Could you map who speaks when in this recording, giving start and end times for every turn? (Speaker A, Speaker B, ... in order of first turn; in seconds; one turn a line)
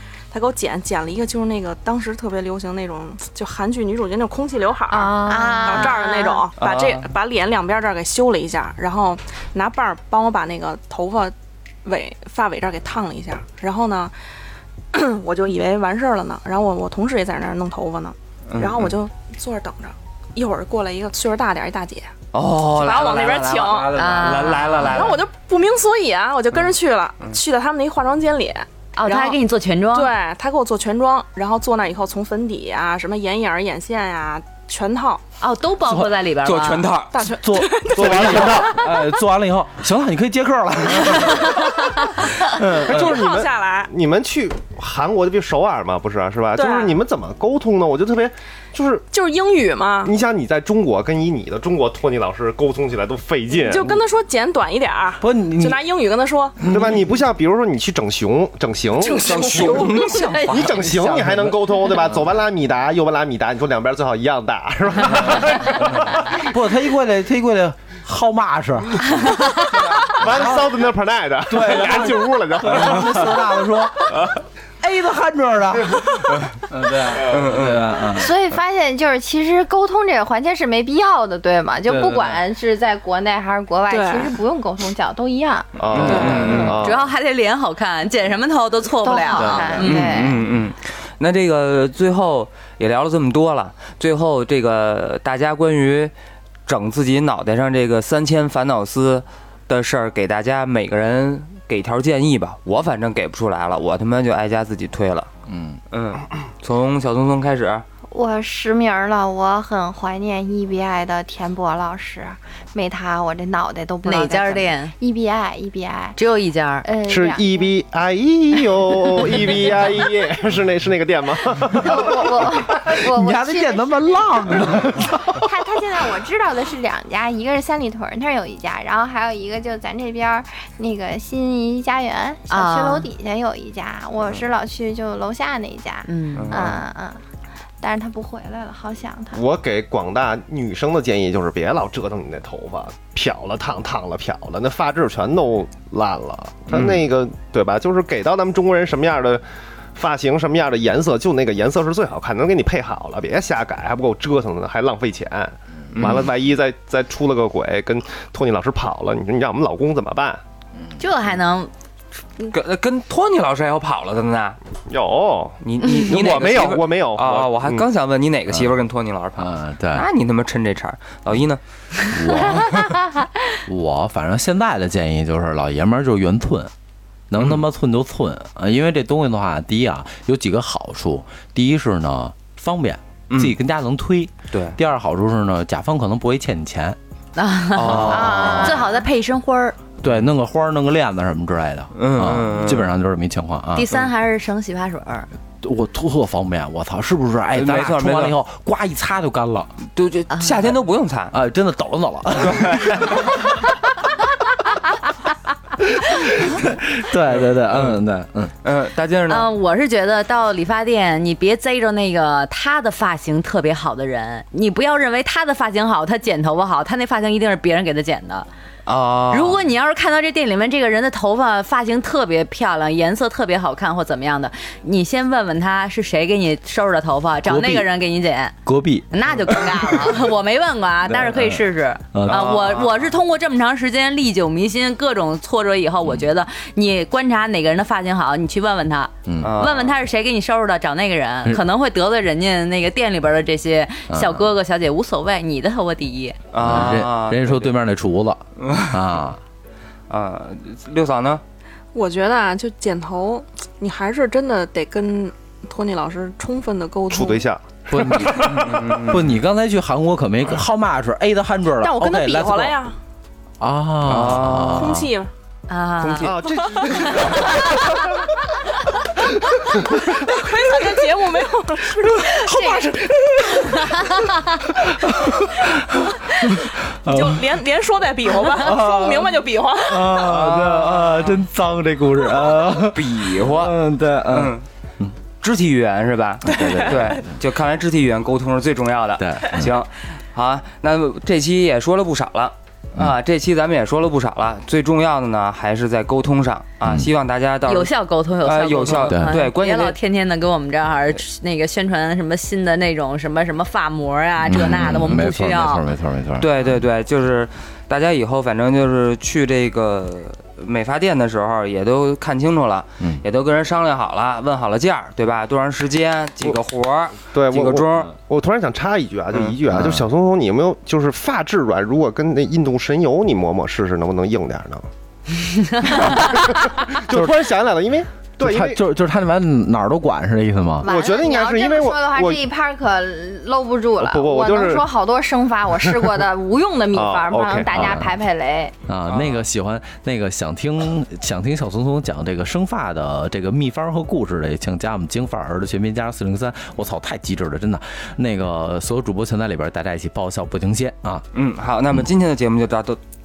Speaker A: 0.3-14.1
Speaker B: 4.9-6.0
Speaker C: 5.3-6.4
Speaker D: 6.6-7.1
Speaker A: 14.9-22.1
Speaker D: 18.5-18.9
Speaker D: 22.3-25.2
Speaker A: 22.7-24.1
Speaker B: 23.9-24.9
Speaker E: 24.1-24.9
Speaker A: 24.9-29.4
Speaker B: 28.9-30.1
Speaker A: 29.9-35.2
Speaker B: 35.4-36.9
Speaker E: 35.8-36.1
Speaker D: 36.4-37.1
Speaker A: 37.1-39.0
Speaker E: 37.2-41.8
Speaker F: 38.0-38.8
Speaker E: 42.4-43.2
Speaker A: 42.8-43.9
Speaker F: 42.8-49.0
Speaker A: 46.5-47.0
Speaker A: 49.1-50.1
Speaker F: 50.0-53.9
Speaker A: 53.5-56.6
Speaker E: 55.2-55.8
Speaker E: 56.6-57.1
Speaker F: 56.6-66.5
Speaker A: 59.0-60.6
Speaker D: 59.0-60.8
Speaker E: 60.8-61.6
Speaker E: 66.3-70.7
Speaker F: 70.0-73.5
Speaker E: 71.5-78.4
Speaker D: 77.3-77.9
Speaker C: 78.1-86.3
Speaker E: 81.9-82.4
Speaker A: 83.9-84.3
Speaker F: 85.8-87.0
Speaker D: 85.9-86.8
Speaker A: 86.0-86.7
Speaker B: 86.6-90.3
Speaker C: 89.0-90.4
Speaker E: 89.4-89.7
Speaker D: 89.4-96.1
Speaker D: 96.7-105.3
Speaker E: 105.5-105.8
Speaker D: 105.9-107.8
Speaker C: 108.1-116.2
Speaker B: 114.0-114.9
Speaker B: 116.1-116.9
Speaker C: 116.8-117.7
Speaker F: 117.0-122.5
Speaker C: 121.8-137.2
Speaker E: 123.0-125.5
Speaker B: 132.5-133.1
Speaker B: 136.1-136.7
Speaker D: 136.4-136.8
Speaker C: 137.8-139.4
Speaker F: 139.3-149.4
Speaker D: 146.7-147.0
Speaker F: 149.9-160.4
Speaker D: 155.9-156.3
Speaker B: 161.0-161.7
Speaker D: 162.5-164.6
Speaker F: 164.9-167.8
Speaker D: 165.6-171.6
Speaker E: 168.5-168.7
Speaker E: 169.3-170.1
Speaker E: 172.1-172.9
Speaker D: 172.4-172.9
Speaker E: 173.7-176.7
Speaker E: 177.3-187.0
Speaker D: 183.3-183.6
Speaker D: 184.5-184.8
Speaker B: 187.3-189.8
Speaker D: 187.7-188.8
Speaker E: 187.8-188.6
Speaker C: 188.1-189.0
Speaker E: 190.0-193.9
Speaker D: 191.9-192.9
Speaker B: 193.7-195.3
Speaker E: 195.6-199.7
Speaker D: 197.6-198.4
Speaker D: 199.9-201.3
Speaker E: 201.3-203.3
Speaker D: 202.4-203.3
Speaker E: 206.1-208.5
Speaker D: 208.6-209.5
Speaker B: 209.3-218.5
Speaker D: 218.8-219.6
Speaker B: 219.3-228.6
Speaker E: 227.4-227.9
Speaker E: 228.7-230.1
Speaker B: 229.1-246.4
Speaker E: 231.0-232.6
Speaker D: 232.2-233.1
Speaker E: 239.2-239.6
Speaker D: 239.4-239.9
Speaker E: 244.1-244.4
Speaker D: 246.5-247.7
Speaker E: 246.6-249.4
Speaker D: 248.6-249.0
Speaker D: 250.1-251.4
Speaker A: 251.9-257.5
Speaker F: 257.1-258.8
Speaker E: 257.9-262.8
Speaker D: 258.3-259.3
Speaker A: 261.8-263.0
Speaker E: 263.6-265.1
Speaker D: 264.0-264.9
Speaker A: 264.7-265.3
Speaker B: 265.7-267.5
Speaker F: 266.1-268.3
Speaker A: 270.1-274.4
Speaker B: 272.4-272.8
Speaker B: 273.5-274.6
Speaker E: 274.8-277.4
Speaker A: 275.2-275.5
Speaker A: 277.0-280.3
Speaker E: 278.6-285.1
Speaker D: 280.4-281.4
Speaker D: 282.7-284.6
Speaker D: 285.4-297.9
Speaker E: 286.4-287.3
Speaker A: 286.5-286.9
Speaker E: 289.2-289.7
Speaker B: 297.7-305.8
Speaker D: 298.4-299.9
Speaker E: 299.1-299.4
Speaker E: 304.4-306.6
Speaker D: 306.4-318.1
Speaker F: 317.3-324.9
Speaker E: 319.7-320.1
Speaker B: 325.4-326.5
Speaker F: 325.8-328.8
Speaker E: 327.1-327.4
Speaker E: 328.4-330.9
Speaker C: 330.8-338.7
Speaker F: 330.8-332.4
Speaker F: 334.0-334.9
Speaker F: 335.9-336.1
Speaker F: 336.9-338.0
Speaker E: 337.7-338.1
Speaker E: 338.9-351.2
Speaker D: 339.1-339.4
Speaker D: 351.3-353.0